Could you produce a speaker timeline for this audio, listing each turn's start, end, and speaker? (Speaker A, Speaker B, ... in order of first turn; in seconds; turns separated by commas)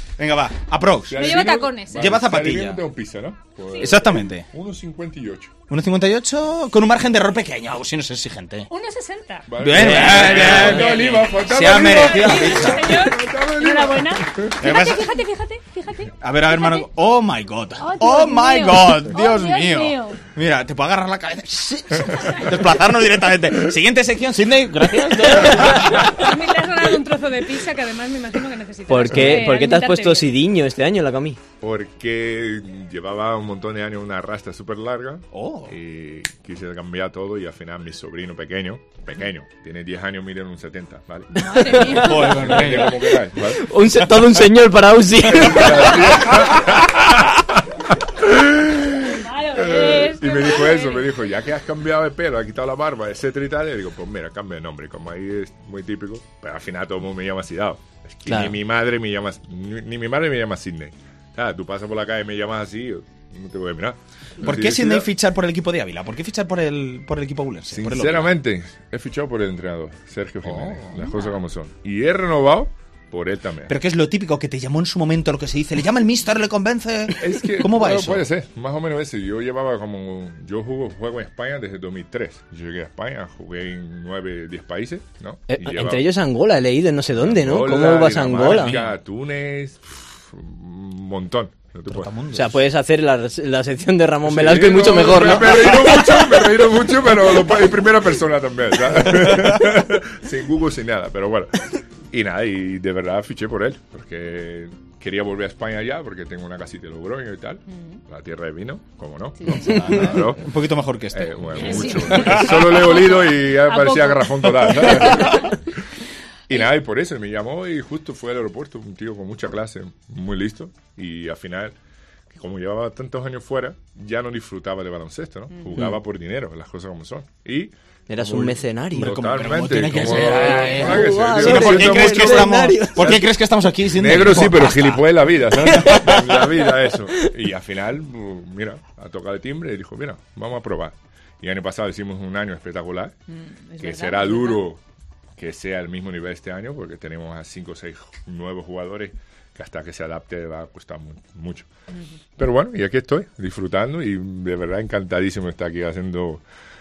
Speaker A: 0.2-2.8, Speaker B: 1.1-5.5, Speaker C: 1.1-2.1, Speaker C: 3.7-4.0, Speaker A: 3.8-4.5, Speaker A: 5.7-8.7, Speaker C: 8.7-9.5, Speaker B: 9.5-14.5, Speaker A: 9.6-13.1, Speaker D: 9.8-11.1, Speaker C: 10.6-16.9, Speaker A: 14.6-15.1, Speaker A: 16.2-26.1, Speaker C: 17.8-20.2, Speaker C: 26.0-30.3, Speaker D: 28.9-31.4, Speaker B: 31.6-41.3, Speaker A: 35.3-35.7, Speaker C: 41.4-42.6, Speaker D: 41.6-42.3, Speaker A: 41.8-43.1, Speaker B: 42.4-43.6, Speaker D: 43.6-46.1, Speaker B: 45.4-47.6, Speaker A: 45.5-45.8, Speaker B: 48.2-65.1, Speaker C: 49.1-51.1, Speaker D: 58.3-58.6, Speaker A: 64.4-68.3, Speaker B: 67.7-73.7, Speaker A: 70.4-71.1, Speaker A: 73.7-78.2, Speaker B: 77.2-86.1, Speaker D: 85.5-88.8, Speaker B: 87.2-92.2, Speaker A: 88.4-88.8, Speaker A: 91.9-92.6, Speaker D: 92.3-96.0, Speaker B: 94.3-110.4, Speaker A: 95.3-95.7, Speaker C: 109.4-109.7, Speaker A: 109.5-112.7, Speaker B: 111.1-115.5, Speaker C: 111.6-115.4, Speaker B: 116.5-121.7, Speaker B: 122.3-132.4, Speaker D: 128.1-129.2, Speaker A: 128.9-135.0, Speaker D: 130.2-133.2, Speaker B: 133.0-133.2, Speaker B: 133.9-143.1, Speaker D: 135.7-137.3, Speaker C: 143.3-144.6, Speaker B: 143.8-144.8, Speaker B: 145.4-151.7, Speaker B: 152.4-156.4